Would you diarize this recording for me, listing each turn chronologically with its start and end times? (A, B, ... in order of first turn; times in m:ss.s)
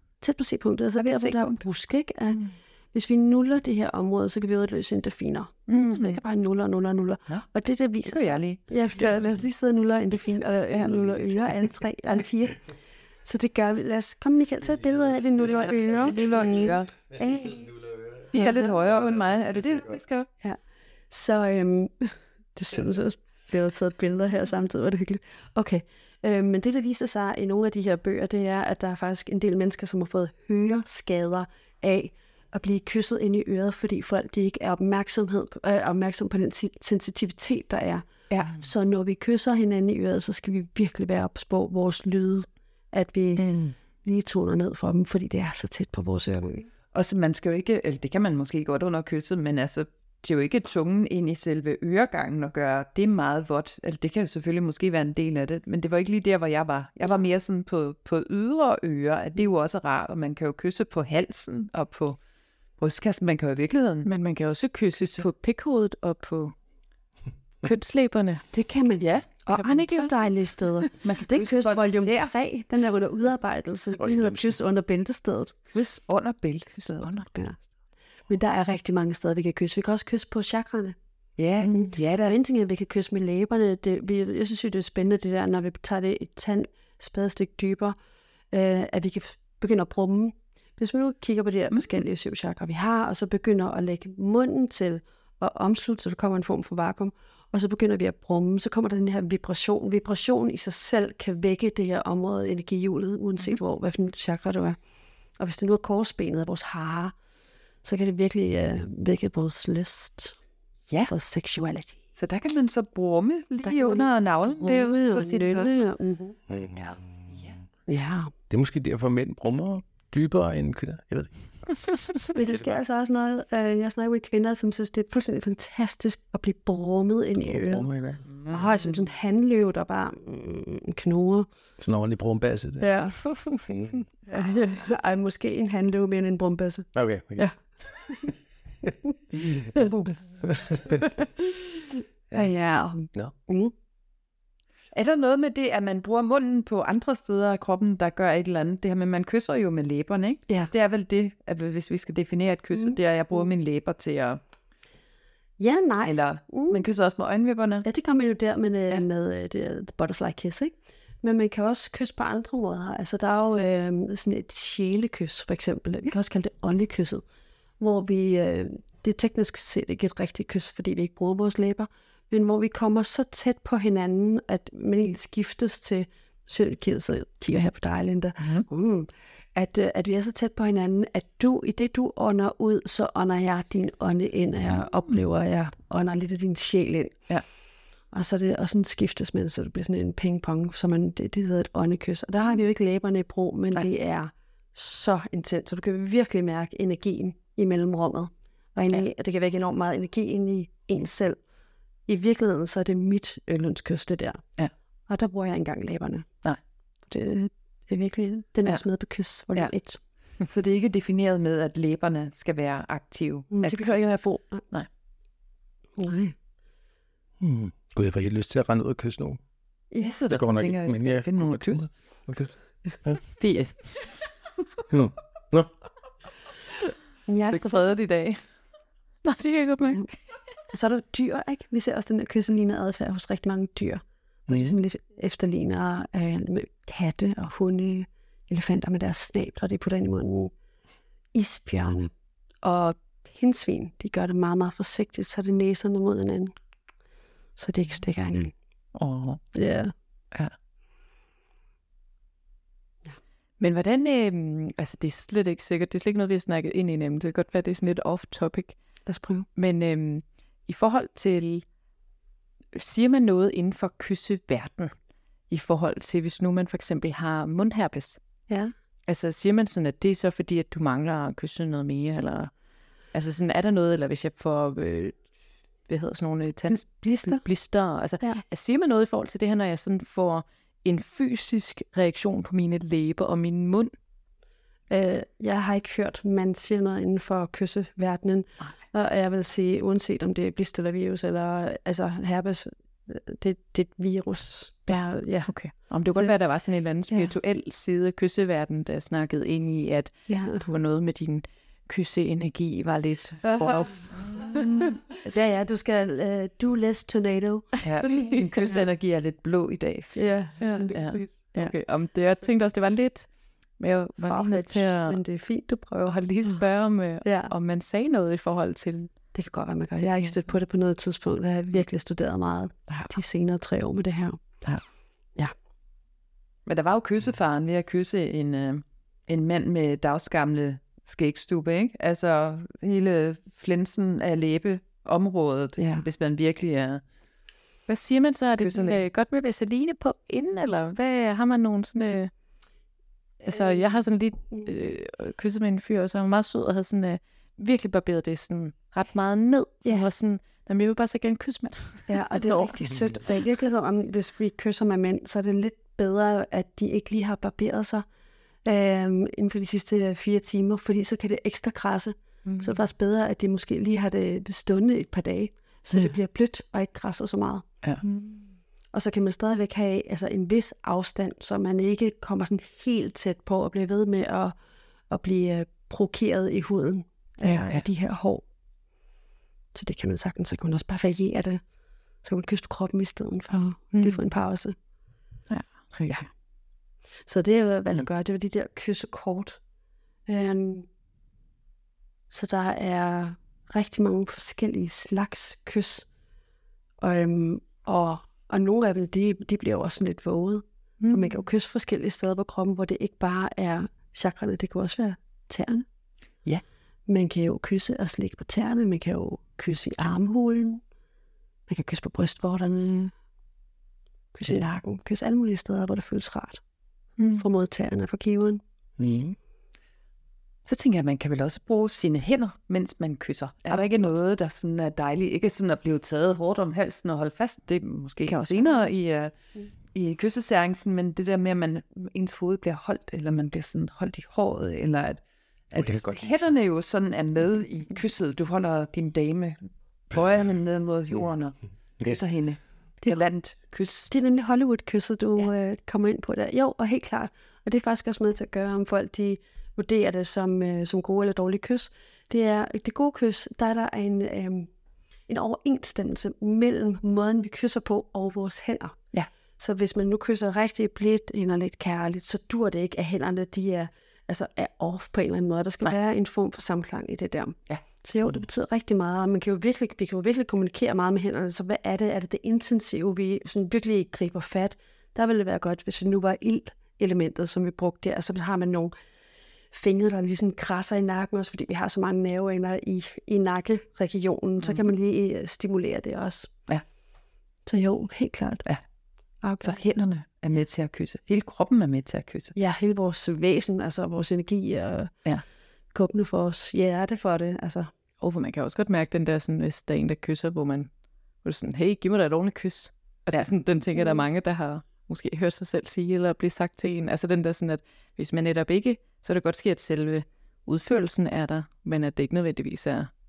0:00.2-0:12.7 A
0:01.0-0:01.6 B
0:05.7-0:06.1 B
0:08.0-0:08.6 C
0:13.2-0:18.7 A
0:16.1-0:16.9 C
0:18.3-0:20.3 C
0:20.4-0:43.4 A
0:43.4-0:43.7 C
0:44.0-0:46.7 A
0:46.9-1:02.2 C
1:02.8-1:04.1 C
1:04.0-1:06.5 B
1:04.9-1:05.3 C
1:07.6-1:08.4 B
1:08.5-1:15.8 A
1:09.0-1:09.3 C
1:09.5-1:10.1 B
1:11.0-1:12.3 C
1:14.0-1:14.5 D
1:15.7-1:17.1 C
1:16.9-1:17.3 B
1:17.2-1:17.6 A
1:18.3-1:21.0 A
1:21.4-1:22.3 C
1:21.6-1:28.0 A
1:28.5-1:44.8 A
1:45.4-1:47.1 A
1:47.8-1:50.4 A
1:51.1-1:52.0 A
1:52.2-1:55.7 C
1:53.6-1:56.4 A
1:56.5-1:56.9 D
1:57.3-1:57.6 C
1:57.9-1:58.3 A
1:58.5-2:02.8 D
2:02.3-2:07.8 A
2:07.4-2:08.2 D
2:08.3-2:08.9 C
2:08.5-2:11.5 A
2:11.8-2:12.9 D
2:12.8-2:13.2 A
2:13.5-2:14.0 D
2:14.3-2:17.6 A
2:16.9-2:18.3 D
2:18.8-2:19.9 D
2:20.4-2:21.2 D
2:22.3-2:23.7 A
2:24.9-2:34.4 C
2:32.8-2:33.4 A
2:35.6-2:36.8 A
2:36.0-2:37.8 C
2:37.8-2:47.2 A
2:47.8-3:07.3 A
2:58.4-2:58.6 C
3:08.1-3:21.4 A
3:22.1-3:24.4 A
3:25.1-3:26.3 A
3:27.1-3:30.0 A
3:30.4-3:34.0 C
3:33.5-3:34.6 A
3:36.0-3:36.3 A
3:37.4-3:39.4 D
3:39.9-3:40.2 A
3:40.0-3:41.9 C
3:40.3-3:43.2 D
3:43.4-3:44.1 C
3:44.9-3:45.7 D
3:47.3-3:47.9 A
3:47.5-3:48.5 C
3:49.2-3:50.2 B
3:50.7-4:00.5 A
3:54.5-3:54.8 D
4:01.3-4:02.1 A
4:02.6-4:06.5 A
4:07.6-4:08.5 A
4:08.9-4:09.4 C
4:09.5-4:09.9 A
4:13.6-4:18.8 B
4:19.0-4:19.5 A
4:19.5-4:21.6 B
4:22.7-4:24.9 B
4:25.5-4:28.2 B
4:29.1-4:32.5 B
4:33.1-4:35.2 B
4:35.9-4:43.9 B
4:36.7-4:37.4 A
4:44.9-4:56.4 A
4:54.9-5:04.6 B
4:57.1-4:57.3 A
5:00.3-5:00.6 A
5:03.4-5:04.2 A
5:03.6-5:04.9 C
5:05.2-5:07.8 A
5:07.8-5:08.4 B
5:07.8-5:10.2 C
5:10.1-5:11.7 A
5:10.6-5:15.2 B
5:10.9-5:11.2 C
5:14.2-5:16.6 A
5:16.0-5:19.1 B
5:17.2-5:17.5 A
5:19.3-5:24.4 A
5:22.9-5:23.2 B
5:26.6-5:37.0 C
5:35.8-5:36.0 A
5:37.9-5:42.3 B
5:38.6-5:39.0 C
5:43.4-5:43.9 A
5:43.5-5:52.2 B
5:52.1-5:58.0 A
5:58.6-6:07.6 A
6:02.4-6:02.8 B
6:08.0-6:08.5 B
6:08.9-6:14.5 A
6:15.1-6:18.4 A
6:19.7-6:21.6 A
6:22.2-6:24.7 A
6:23.9-6:24.2 B
6:25.6-6:26.1 C
6:27.2-6:29.6 A
6:30.3-6:30.9 A
6:32.3-6:36.0 A
6:37.0-6:45.8 A
6:41.0-6:41.4 B
6:47.1-6:50.8 A
6:51.7-6:53.1 A
6:54.3-6:56.6 A
6:57.2-6:57.4 B
6:57.3-6:58.6 A
6:59.0-6:59.4 C
7:00.6-7:09.3 C
7:08.2-7:08.7 B
7:09.9-7:24.1 C
7:15.8-7:16.5 D
7:24.1-7:34.7 A
7:35.3-7:39.0 A
7:39.6-7:58.9 A
7:59.7-8:06.6 A
8:07.6-8:08.6 A
8:09.4-8:09.8 A
8:09.6-8:12.5 C
8:12.6-8:15.1 A
8:15.9-8:17.9 A
8:18.2-8:20.9 B
8:21.4-8:33.1 B
8:23.9-8:24.2 A